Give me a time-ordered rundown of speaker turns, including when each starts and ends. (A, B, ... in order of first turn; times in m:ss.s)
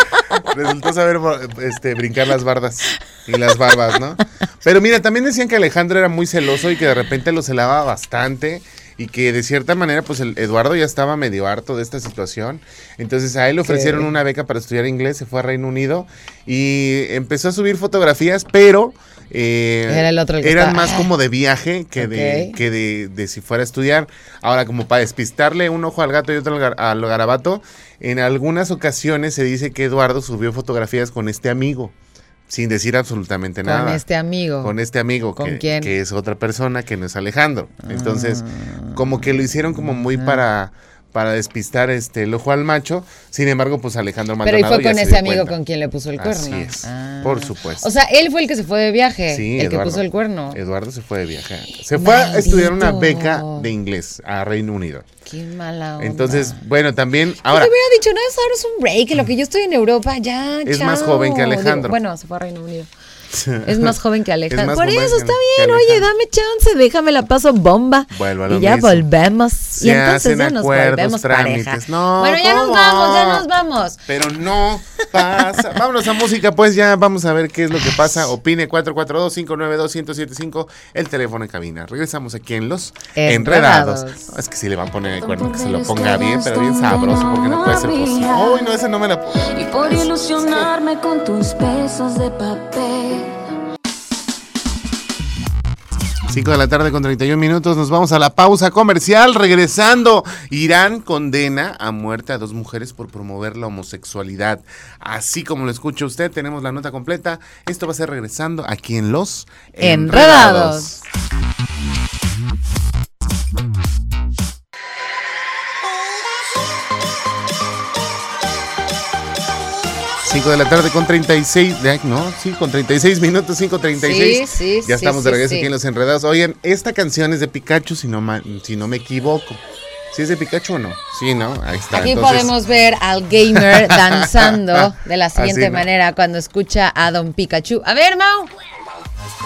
0:00.4-0:31.9 A
0:13.6-0:14.1 B
0:19.9-0:21.1 B
0:22.0-0:22.6 B
0:32.5-0:34.0 A
0:33.6-0:34.7 B
0:34.6-0:45.6 A
0:35.4-0:35.9 B
0:37.8-0:39.0 B
0:40.1-0:40.4 B
0:44.4-0:50.6 B
0:46.2-0:47.9 A
0:49.3-0:55.0 A
0:52.0-0:53.7 B
0:55.2-0:56.6 B
0:56.0-0:57.7 A
0:57.5-1:02.9 B
1:00.6-1:02.0 A
1:03.3-1:03.9 A
1:03.6-1:14.0 B
1:04.5-1:06.1 A
1:08.1-1:09.0 A
1:09.8-1:13.4 A
1:14.1-1:30.7 A
1:23.1-1:24.3 B
1:25.2-1:28.8 C
1:29.4-1:33.4 C
1:36.3-1:51.0 A
1:49.8-1:51.0 B
2:00.2-2:09.6 A
2:04.0-2:05.7 B
2:10.1-2:12.5 A
2:11.9-2:18.5 B
2:13.5-2:15.8 A